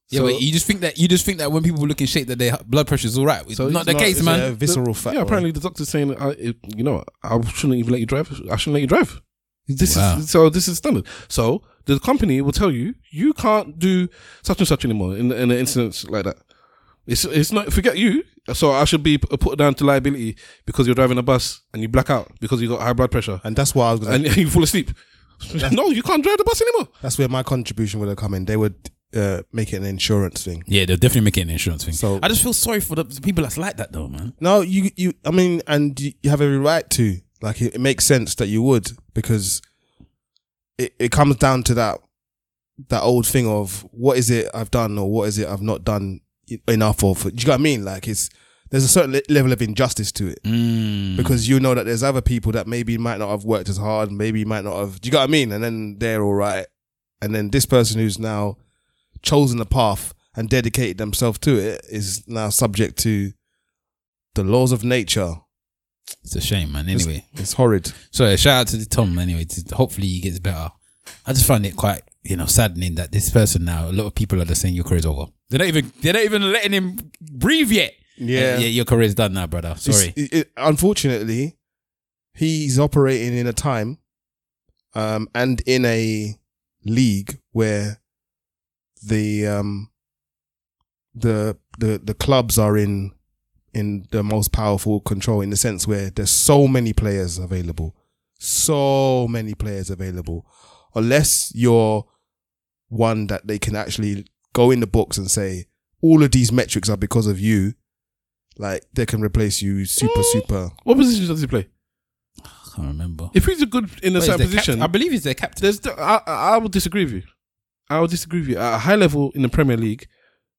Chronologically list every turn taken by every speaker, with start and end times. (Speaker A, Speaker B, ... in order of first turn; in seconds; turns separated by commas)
Speaker A: 0.1-0.4, Speaker B: 0.1-4.5, Speaker A: 3.5-16.4, Speaker C: 3.8-5.5, Speaker B: 9.7-10.2, Speaker A: 17.1-23.4, Speaker C: 23.4-24.4, Speaker A: 24.0-26.9, Speaker C: 27.0-30.7, Speaker B: 30.7-34.3, Speaker C: 31.9-32.3, Speaker C: 34.4-39.6, Speaker C: 40.8-42.0, Speaker C: 42.8-50.4, Speaker B: 50.4-51.4, Speaker C: 51.1-56.7, Speaker C: 57.2-58.6, Speaker C: 59.2-63.4, Speaker C: 64.3-65.4, Speaker B: 66.2-67.4, Speaker C: 66.9-67.9, Speaker B: 68.0-80.1, Speaker C: 78.2-78.7, Speaker C: 79.8-81.6, Speaker C: 82.3-84.0, Speaker C: 84.9-88.0, Speaker C: 89.0-89.9, Speaker C: 91.2-93.1, Speaker C: 93.7-102.1, Speaker C: 102.9-107.8, Speaker C: 108.6-110.8, Speaker A: 110.0-111.7, Speaker B: 112.6-113.3, Speaker A: 113.3-117.3, Speaker B: 114.1-115.7, Speaker A: 117.9-120.1